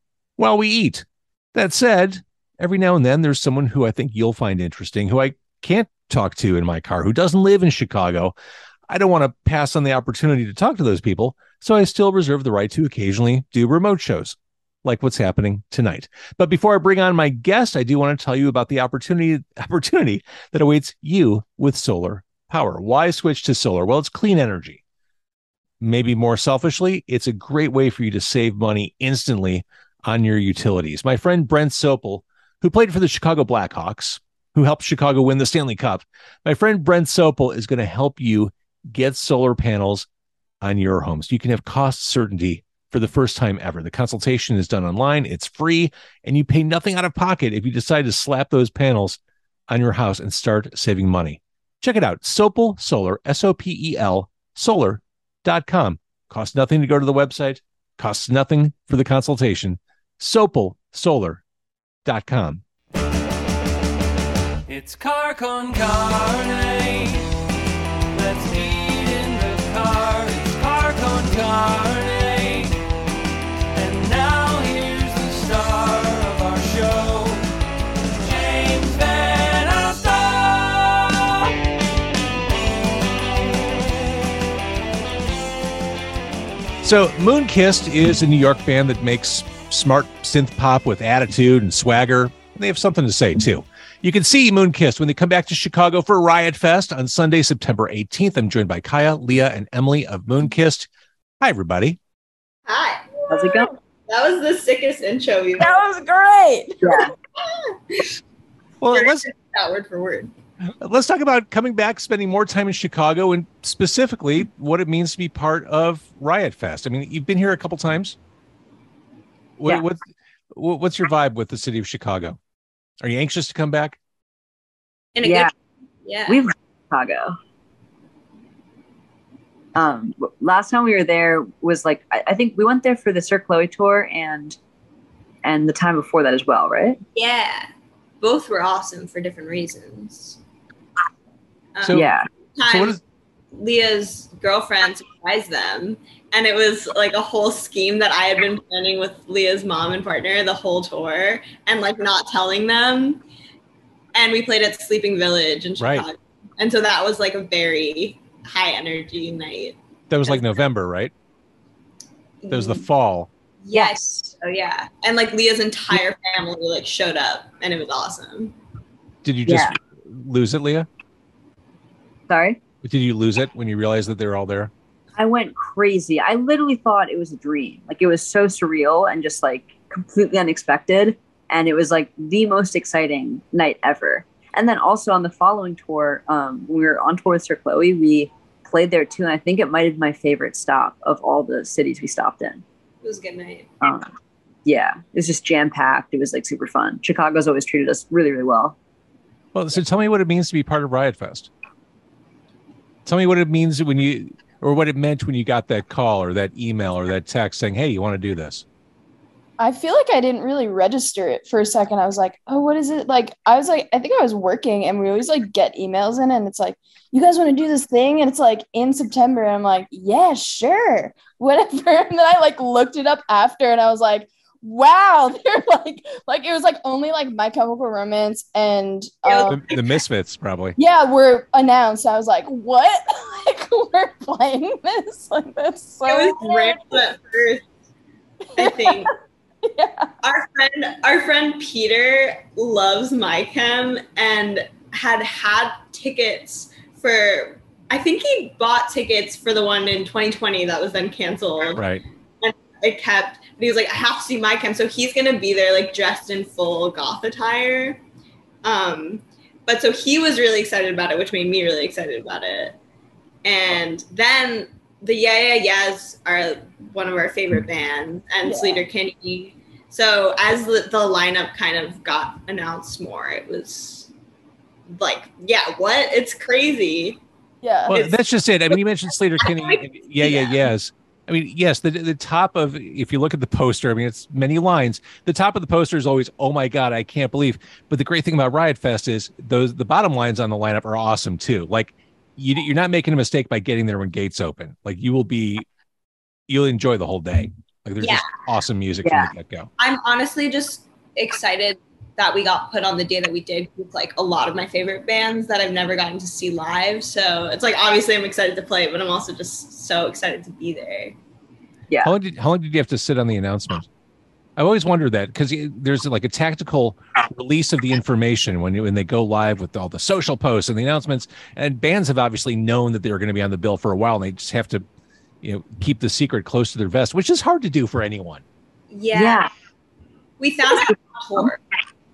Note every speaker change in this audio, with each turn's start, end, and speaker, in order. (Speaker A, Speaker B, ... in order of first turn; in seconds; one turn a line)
Speaker A: 0.4-8.3
Speaker A: 8.9-24.8
Speaker A: 25.8-40.1
Speaker A: 40.6-61.4
Speaker A: 62.0-62.6
Speaker B: 64.7-67.2
Speaker B: 68.1-72.8
Speaker B: 73.7-77.4
Speaker B: 78.2-81.5
Speaker A: 86.8-100.9
Speaker A: 101.4-102.0
Speaker C: 102.7-103.1
Speaker D: 103.3-103.7
Speaker C: 104.1-105.8
Speaker E: 105.6-107.1
Speaker D: 106.8-107.1
Speaker C: 107.4-108.2
Speaker A: 108.8-109.3
Speaker C: 108.9-110.3
Speaker A: 110.8-118.2
Speaker A: 119.6-120.0
Speaker A: 120.5-122.4
Speaker A: 123.0-124.0
Speaker C: 125.2-125.5
Speaker D: 125.2-125.5
Speaker C: 126.0-126.4
Speaker D: 126.3-127.3
Speaker D: 129.8-134.6
Speaker D: 135.4-137.0
Speaker C: 137.1-137.7
Speaker C: 138.2-140.4
Speaker C: 141.8-143.0
Speaker D: 141.9-142.3
Speaker A: 142.7-143.0
Speaker C: 143.5-153.2
Speaker C: 154.1-160.6
Speaker A: 155.8-156.1
Speaker A: 160.1-161.1
Speaker C: 162.4-162.8
Speaker A: 162.5-163.3
Speaker C: 163.6-168.6
Speaker D: 163.7-164.3
Speaker A: 169.2-170.9
Speaker D: 169.4-169.7
Speaker D: 172.3-172.6
Speaker A: 172.8-174.7
Speaker D: 175.2-192.6
Speaker C: 193.0-193.7
Speaker D: 193.8-194.1
Speaker D: 194.7-198.8
Speaker A: 199.5-201.5
Speaker A: 203.1-208.6
Speaker E: 209.6-229.8
Speaker C: 229.2-229.8
Speaker A: 229.5-230.8
Speaker E: 230.8-236.8
Speaker C: 236.1-237.6
Speaker C: 238.6-239.1
Speaker E: 238.6-239.1
Speaker E: 239.7-240.1
Speaker C: 240.2-251.8
Speaker A: 251.8-252.0
Speaker C: 252.4-258.0
Speaker C: 258.6-262.8
Speaker C: 263.4-274.1
Speaker E: 268.4-268.9
Speaker C: 274.9-277.2
Speaker E: 277.6-278.1
Speaker A: 277.9-295.6
Speaker C: 277.9-278.2
Speaker C: 279.4-280.6
Speaker A: 296.5-299.7
Speaker D: 299.0-299.3
Speaker C: 299.8-311.1
Speaker A: 312.0-313.9
Speaker A: 314.6-324.8
Speaker A: 325.4-328.4
Speaker C: 328.9-329.5
Speaker D: 329.1-329.5
Speaker C: 330.4-331.6
Speaker D: 330.6-331.5